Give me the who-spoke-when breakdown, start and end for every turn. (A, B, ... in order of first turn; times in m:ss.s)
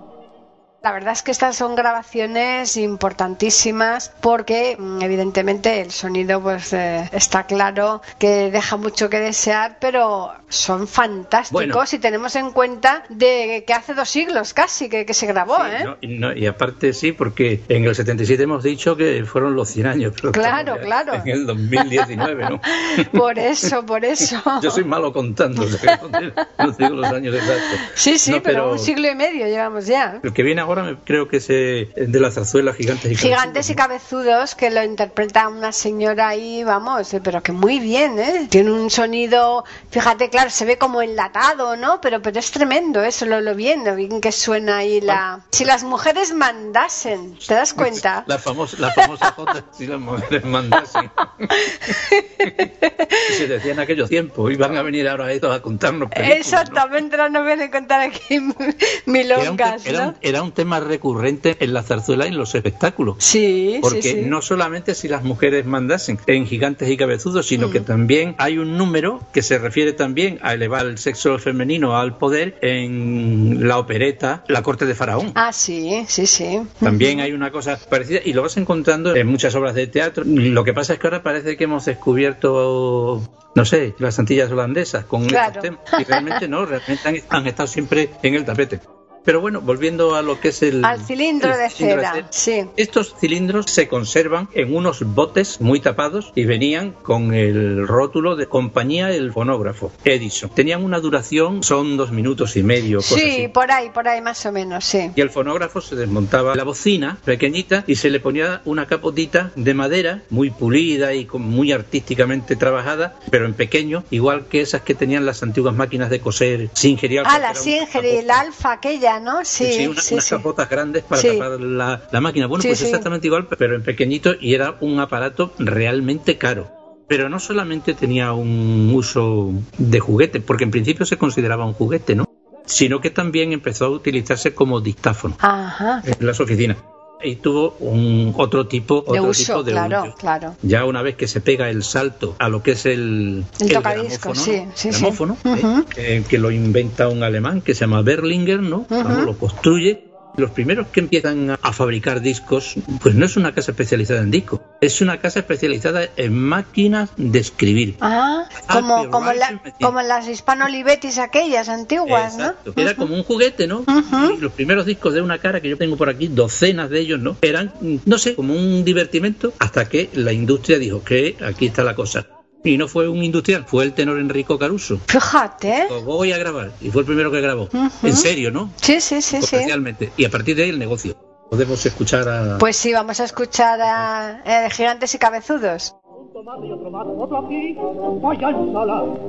0:00.8-0:15.9 A
0:11.5-0:11.8 B
0:15.5-0:23.7 B
0:20.3-0:22.1 A
0:22.8-0:24.8 A
0:24.6-0:28.9 B
0:25.6-0:26.1 A
0:27.6-0:30.2 A
0:30.2-0:33.8 B
0:33.2-0:48.3 A
0:47.8-0:52.6 B
0:49.0-0:49.3 A
0:51.6-0:53.3 A
0:53.3-0:56.8 B
0:56.2-1:00.1 A
0:59.4-1:03.2 B
1:03.2-1:04.3 A
1:03.8-1:15.4 B
1:07.6-1:07.8 A
1:15.4-1:17.3 A
1:16.8-1:32.3 B
1:25.3-1:26.4 A
1:30.8-1:32.7 A
1:32.8-1:43.5 B
1:43.0-1:45.1 A
1:45.2-1:58.4 B
1:57.2-2:00.4 A
1:59.6-2:15.4 B
2:01.2-2:01.4 A
2:02.6-2:03.1 A
2:15.4-2:16.1 A
2:16.0-2:38.0 B
2:19.1-2:20.6 A
2:23.6-2:25.9 A
2:28.9-2:29.3 A
2:38.0-2:43.1 A
2:38.6-2:39.9 B
2:42.1-2:55.0 B
2:43.9-2:44.4 A
2:55.1-2:55.9 A
2:55.7-2:58.8 B
2:57.7-2:58.3 A
2:58.8-2:59.7 A
2:59.4-3:02.6 B
3:02.6-3:05.9 A
3:06.2-3:09.1 C